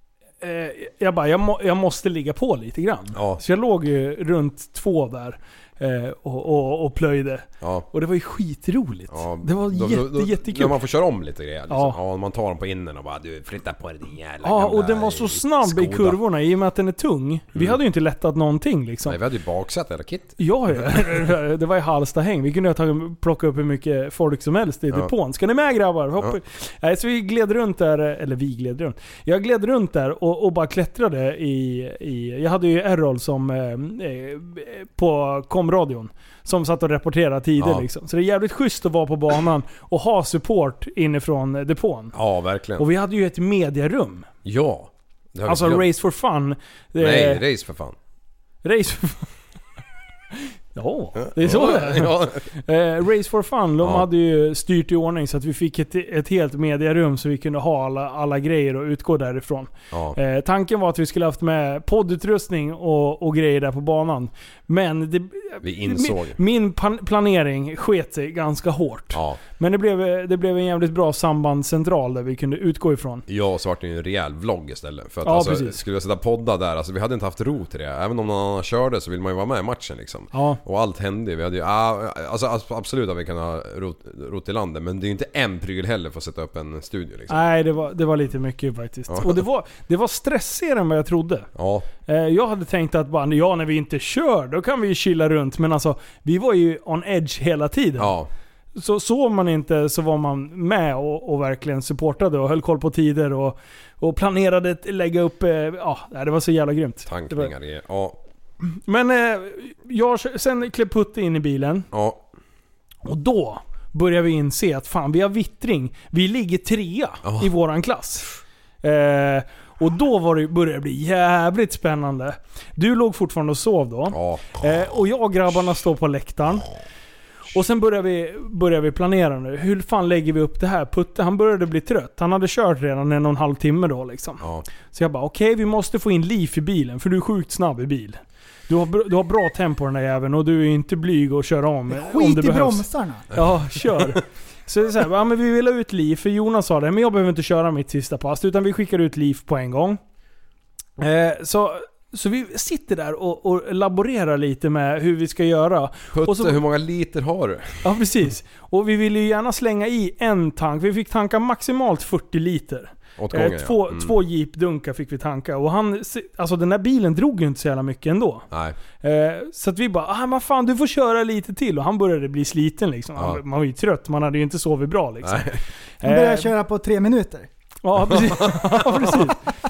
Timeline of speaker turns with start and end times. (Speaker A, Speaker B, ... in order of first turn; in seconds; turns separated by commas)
Speaker A: 0.4-10.8, Speaker B: 3.1-3.4, Speaker B: 7.6-7.9, Speaker B: 9.1-16.2, Speaker A: 11.7-12.0, Speaker A: 14.4-19.2, Speaker B: 19.1-20.9, Speaker A: 20.4-42.1, Speaker B: 37.6-37.8, Speaker B: 42.1-42.9, Speaker A: 42.8-44.3, Speaker B: 44.5-45.9, Speaker A: 45.5-47.4, Speaker B: 47.0-48.0, Speaker A: 48.6-49.4, Speaker A: 50.8-73.2, Speaker B: 51.2-52.5, Speaker B: 59.9-60.2, Speaker B: 65.6-66.4, Speaker B: 69.1-69.4, Speaker B: 73.3-87.4, Speaker A: 75.2-75.8, Speaker A: 80.3-80.6, Speaker A: 87.3-91.5, Speaker B: 89.1-89.4, Speaker B: 91.5-91.9, Speaker A: 92.1-98.1, Speaker B: 98.0-98.3, Speaker A: 98.8-107.5, Speaker B: 107.1-108.2, Speaker A: 108.9-111.9, Speaker B: 111.9-112.2, Speaker A: 113.0-118.3, Speaker B: 117.2-117.5, Speaker A: 118.8-126.7, Speaker B: 124.1-124.6, Speaker A: 127.5-150.0, Speaker C: 141.9-143.3, Speaker B: 143.3-144.2, Speaker A: 151.0-156.6, Speaker B: 156.1-157.8, Speaker A: 157.8-168.5, Speaker B: 163.2-164.2, Speaker A: 169.0-176.5, Speaker B: 175.2-175.6, Speaker C: 176.0-177.5, Speaker A: 177.8-179.4